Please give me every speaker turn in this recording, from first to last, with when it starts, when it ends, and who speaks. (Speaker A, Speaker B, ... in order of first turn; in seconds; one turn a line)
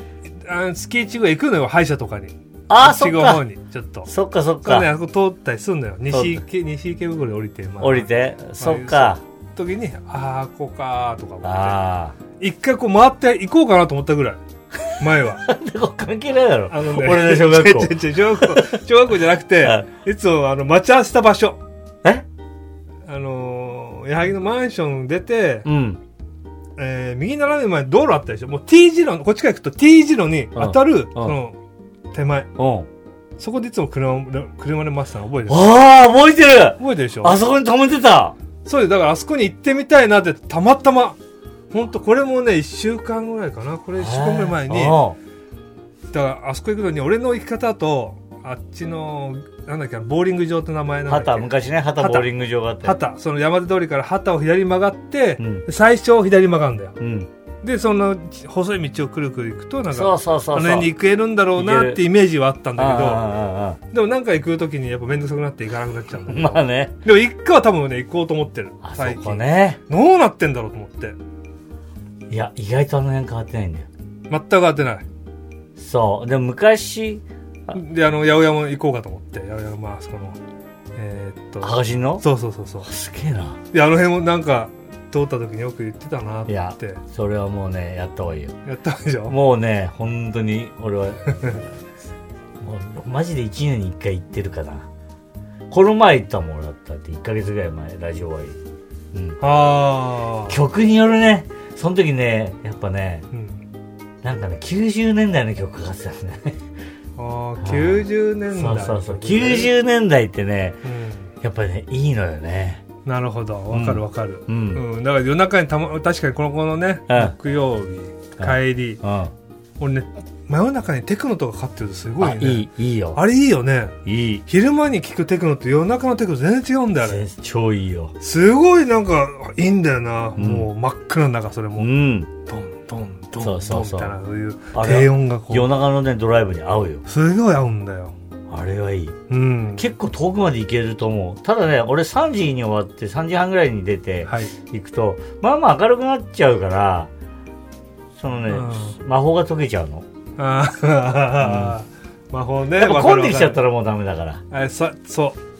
Speaker A: 0.5-4.1
Speaker B: 2.7-3.4
Speaker B: 4.0-4.9
Speaker A: 4.6-11.8
Speaker B: 6.1-6.4
Speaker B: 7.8-9.2
Speaker B: 11.4-12.2
Speaker A: 12.4-14.4
Speaker A: 15.0-15.5
Speaker B: 15.4-18.7
Speaker A: 16.7-21.6
Speaker A: 23.1-25.7
Speaker B: 25.7-26.0
Speaker A: 26.8-31.6
Speaker B: 30.6-31.4
Speaker A: 32.1-32.5
Speaker B: 32.6-32.9
Speaker A: 33.4-35.7
Speaker B: 35.5-38.4
Speaker A: 36.8-37.4
Speaker A: 38.6-41.2
Speaker A: 41.7-45.0
Speaker B: 44.0-45.2
Speaker A: 46.1-52.3
Speaker B: 51.1-53.0
Speaker A: 52.8-57.0
Speaker B: 55.4-55.6
Speaker B: 57.0-57.3
Speaker A: 57.6-63.3
Speaker B: 59.9-60.9
Speaker B: 61.5-62.0
Speaker B: 62.8-63.8
Speaker A: 63.9-71.2
Speaker B: 66.3-67.0
Speaker B: 68.8-69.8
Speaker B: 72.3-73.9
Speaker A: 74.3-75.1
Speaker B: 75.8-77.8
Speaker A: 77.7-80.4
Speaker A: 81.0-82.9
Speaker B: 81.6-82.2
Speaker B: 82.8-83.6
Speaker A: 83.7-87.0
Speaker B: 86.5-88.6
Speaker A: 88.7-89.4
Speaker B: 89.3-91.7
Speaker B: 92.6-94.9
Speaker B: 95.7-98.6
Speaker B: 99.1-99.4
Speaker A: 99.4-100.6
Speaker B: 100.5-103.3
Speaker A: 103.3-103.6
Speaker B: 104.2-106.6
Speaker A: 107.2-109.7
Speaker B: 107.6-110.8
Speaker A: 110.8-111.3
Speaker B: 111.4-112.8
Speaker A: 113.0-119.0
Speaker B: 113.7-114.8
Speaker B: 117.1-117.4
Speaker B: 118.4-119.3
Speaker A: 119.8-127.2
Speaker B: 122.2-123.2
Speaker B: 124.0-124.5
Speaker B: 127.0-128.1
Speaker A: 128.2-131.9
Speaker B: 130.4-130.7
Speaker B: 131.8-132.3
Speaker A: 132.5-135.7
Speaker B: 133.4-134.2
Speaker B: 134.7-137.0
Speaker A: 137.1-138.2
Speaker B: 138.5-139.2
Speaker A: 139.3-139.8
Speaker B: 139.8-147.1
Speaker A: 144.2-144.5
Speaker B: 148.2-150.1
Speaker A: 148.5-149.0
Speaker A: 150.4-153.6
Speaker B: 151.4-151.8
Speaker B: 152.8-154.4
Speaker A: 154.5-155.4